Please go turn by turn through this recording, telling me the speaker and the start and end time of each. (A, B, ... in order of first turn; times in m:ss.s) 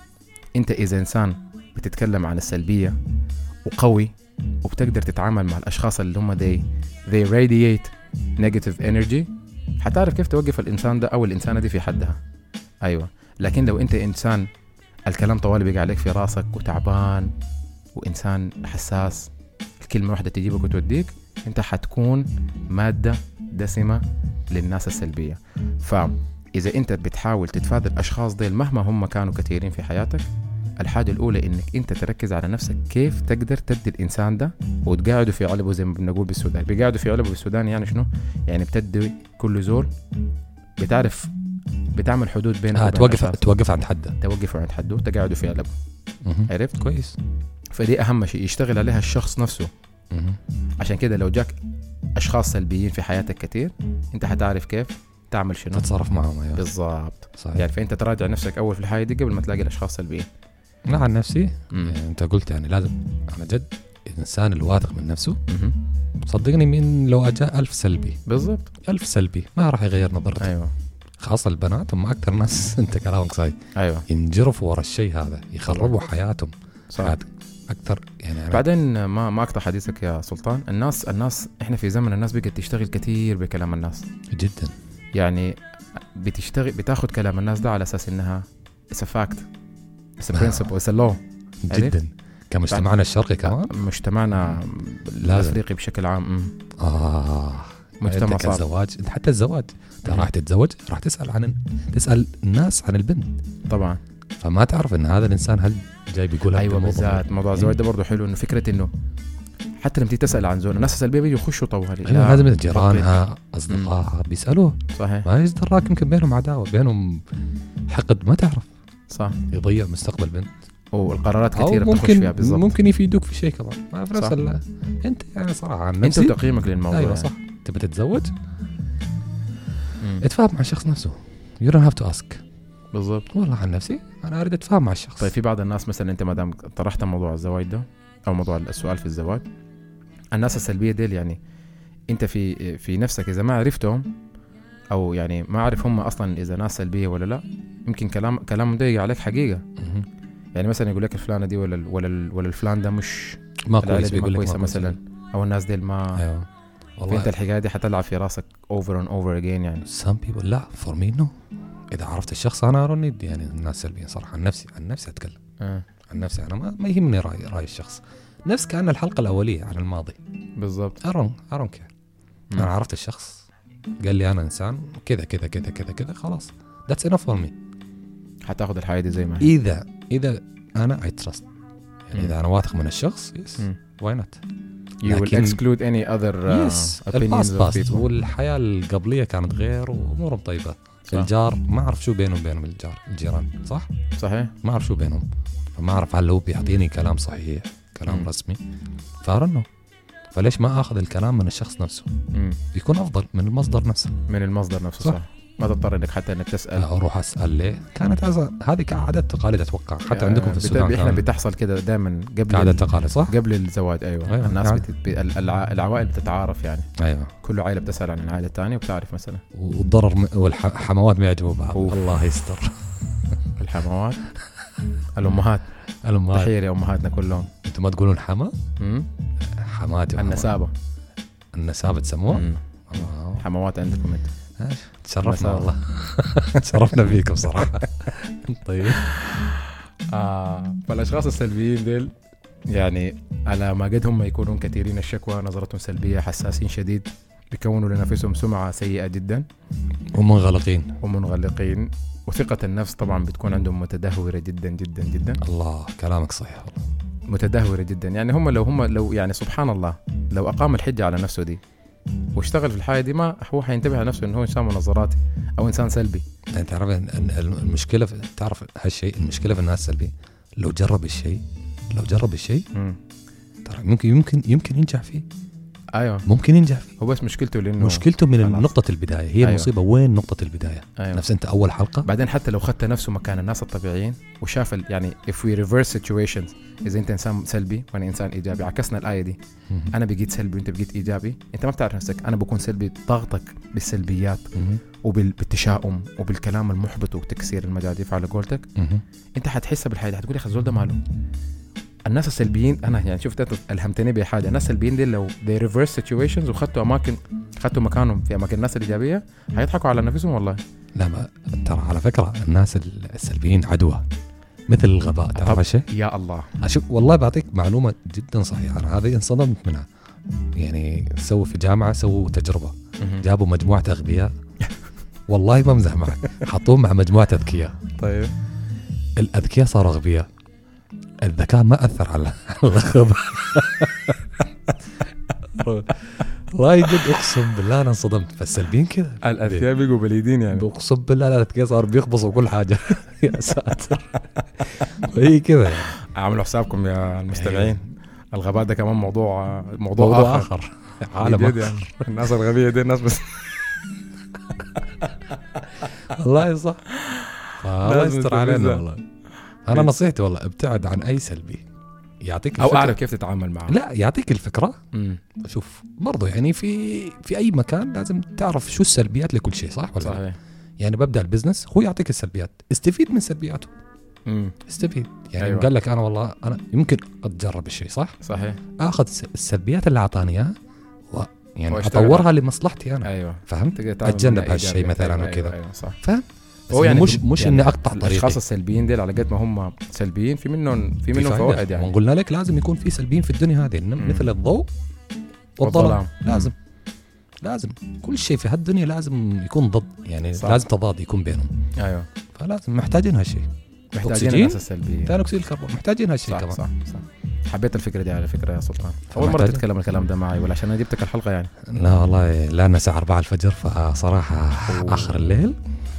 0:00.6-0:03.0 A
0:03.6-0:04.1 A
0:04.6-0:09.3 A
0:09.8-0:12.2 A
0:12.8-0:14.5 A
0:15.1-0:17.3 A
0:17.9-0:30.3 A
0:30.8-0:39.9 A
0:40.8-0:41.3 A
0:41.9-0:43.4 A
0:42.7-0:44.2 B
0:44.2-0:45.7 A
0:46.2-0:47.2 B
0:46.5-0:46.7 A
0:47.7-0:49.7 A
0:50.1-0:50.4 B
0:50.8-0:51.6 A
0:52.2-0:55.9 A
0:55.7-0:56.6 B
0:56.5-1:00.3 A
0:57.4-0:57.6 B
1:00.9-1:05.4 B
1:01.7-1:02.0 A
1:05.5-1:05.7 A
1:06.2-1:08.2 B
1:08.3-1:08.7 A
1:08.8-1:10.5 B
1:10.4-1:10.7 A
1:11.2-1:13.6 B
1:13.7-1:14.0 A
1:14.1-1:18.6 B
1:15.7-1:16.0 A
1:16.9-1:17.2 A
1:18.5-1:24.0 A
1:24.3-1:24.7 B
1:25.1-1:25.6 A
1:26.1-1:29.5 A
1:30.2-1:32.0 A
1:30.3-1:30.7 B
1:31.6-1:33.7 B
1:33.4-1:36.5 A
1:35.2-1:35.6 B
1:36.8-1:43.3 B
1:38.0-1:38.6 A
1:43.7-1:44.0 A
1:44.4-1:47.7 B
1:46.5-1:48.9 A
1:49.8-1:53.2 A
1:52.0-1:57.2 B
1:54.9-1:55.3 A
1:57.9-1:58.7 B
1:59.1-1:59.4 A
1:59.5-2:00.5 B
2:00.9-2:02.7 A
2:01.5-2:06.4 B
2:06.0-2:07.3 A
2:06.9-2:08.3 B
2:10.2-2:12.4 B
2:12.9-2:13.3 A
2:13.3-2:15.3 B
2:15.2-2:19.4 A
2:20.3-2:21.4 A
2:22.1-2:24.1 A
2:24.9-2:29.6 A
2:29.8-2:30.1 B
2:30.5-2:36.2 A
2:33.7-2:35.0 B
2:36.2-2:37.3 B
2:37.1-2:39.8 A
2:39.8-2:41.3 B
2:41.9-2:45.4 B
2:46.1-2:50.2 B
2:50.6-2:51.0 A
2:51.0-2:51.9 B
2:52.6-2:53.4 B
2:54.0-2:57.5 B
2:58.4-2:59.5 A
2:59.4-3:01.4 B
3:02.1-3:04.4 B
3:05.0-3:08.0 A
3:05.0-3:05.6 B
3:06.5-3:13.9 B
3:14.2-3:14.5 A
3:14.6-3:15.2 B
3:15.8-3:18.6 B
3:19.2-3:19.7 B
3:20.3-3:22.1 B
3:22.3-3:22.6 A
3:22.7-3:24.2 B
3:24.3-3:26.9 A
3:26.8-3:31.2 B
3:30.1-3:36.9 A
3:32.5-3:33.3 B
3:34.3-3:34.8 B
3:37.0-3:37.3 B
3:37.4-3:39.4 A
3:39.5-3:42.8 B
3:41.7-3:42.0 A
3:43.6-3:44.2 A
3:45.2-3:45.6 A
3:46.0-3:46.5 B
3:46.3-3:47.5 A
3:47.6-3:48.5 B
3:48.8-3:49.1 A
3:49.5-3:50.5 B
3:50.2-3:50.7 A
3:51.5-3:53.4 B
3:52.3-3:54.3 A
3:54.6-3:59.2 B
3:55.2-3:55.7 A
4:00.1-4:02.1 A
4:02.7-4:09.4 A
4:10.1-4:10.9 B
4:11.0-4:15.4 A
4:15.4-4:16.8 B
4:17.3-4:21.6 A
4:22.4-4:26.2 A
4:26.5-4:32.7 B
4:32.7-4:33.0 A
4:33.6-4:35.2 B
4:35.9-4:36.2 A
4:36.2-4:36.9 B
4:37.0-4:38.7 A
4:37.8-4:42.1 B
4:39.4-4:39.7 A
4:41.0-4:41.2 A
4:42.0-4:49.4 A
4:49.9-4:54.5 A
4:54.5-4:54.8 B
4:55.0-4:58.6 A
4:58.8-4:59.0 B
4:59.4-5:01.0 A
5:02.1-5:10.6 A
5:11.0-5:14.0 B
5:14.7-5:15.9 B
5:15.4-5:16.5 A
5:16.6-5:19.9 B
5:20.6-5:24.3 B
5:23.0-5:23.2 A
5:25.3-5:27.8 B
5:28.0-5:28.3 A
5:29.2-5:30.3 B
5:31.2-5:34.4 B
5:35.6-5:39.7 B
5:39.2-5:40.6 A
5:40.5-5:46.0 B
5:46.1-5:50.5 A
5:47.3-5:47.7 B
5:50.0-5:52.1 B
5:51.1-5:53.7 A
5:56.0-5:56.8 B
5:57.0-5:58.8 A
5:57.6-5:59.0 B
5:59.6-6:01.6 B
6:02.2-6:03.0 B
6:02.6-6:03.8 A
6:03.7-6:04.8 B
6:04.9-6:05.2 A
6:05.4-6:10.2 B
6:10.0-6:10.4 A
6:10.8-6:13.7 B
6:14.3-6:14.6 A
6:14.7-6:18.2 B
6:15.4-6:15.7 A
6:18.2-6:18.6 A
6:18.8-6:20.6 B
6:21.1-6:28.4 B
6:21.7-6:22.3 A
6:23.0-6:26.0 A
6:26.7-6:31.9 A
6:31.1-6:34.7 B
6:34.0-6:34.3 A
6:35.6-6:36.5 B
6:35.6-6:36.5 A
6:37.4-6:41.5 B
6:40.3-6:40.6 A
6:41.8-6:42.1 A
6:42.3-6:46.6 B
6:43.9-6:45.2 A
6:46.2-6:51.5 A
6:49.1-6:49.6 B
6:51.6-6:55.6 B
6:54.6-6:55.3 A